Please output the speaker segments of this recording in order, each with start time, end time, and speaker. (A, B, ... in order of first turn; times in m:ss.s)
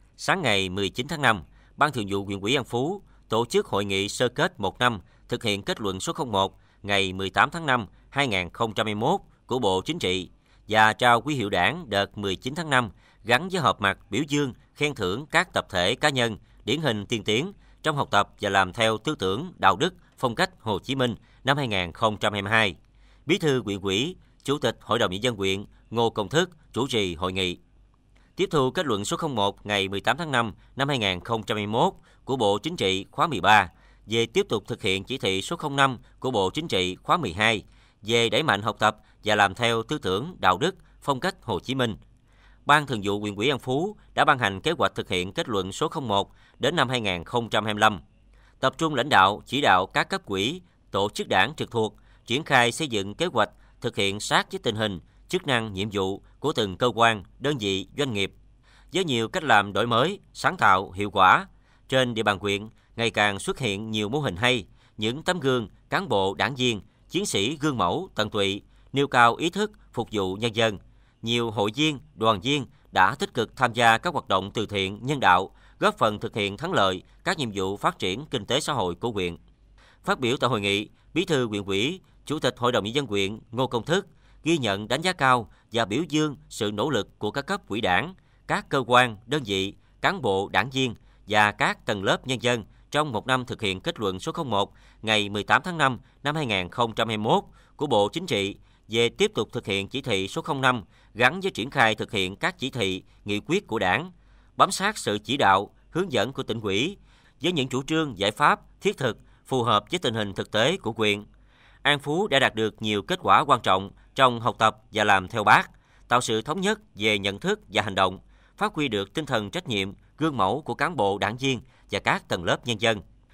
0:00.2-0:27.6 A
0:28.4-0:42.0 A
0:42.7-0:48.0 A
0:48.6-0:58.4 A
0:58.9-1:19.4 A
1:20.0-1:51.2 A
1:51.8-2:03.0 A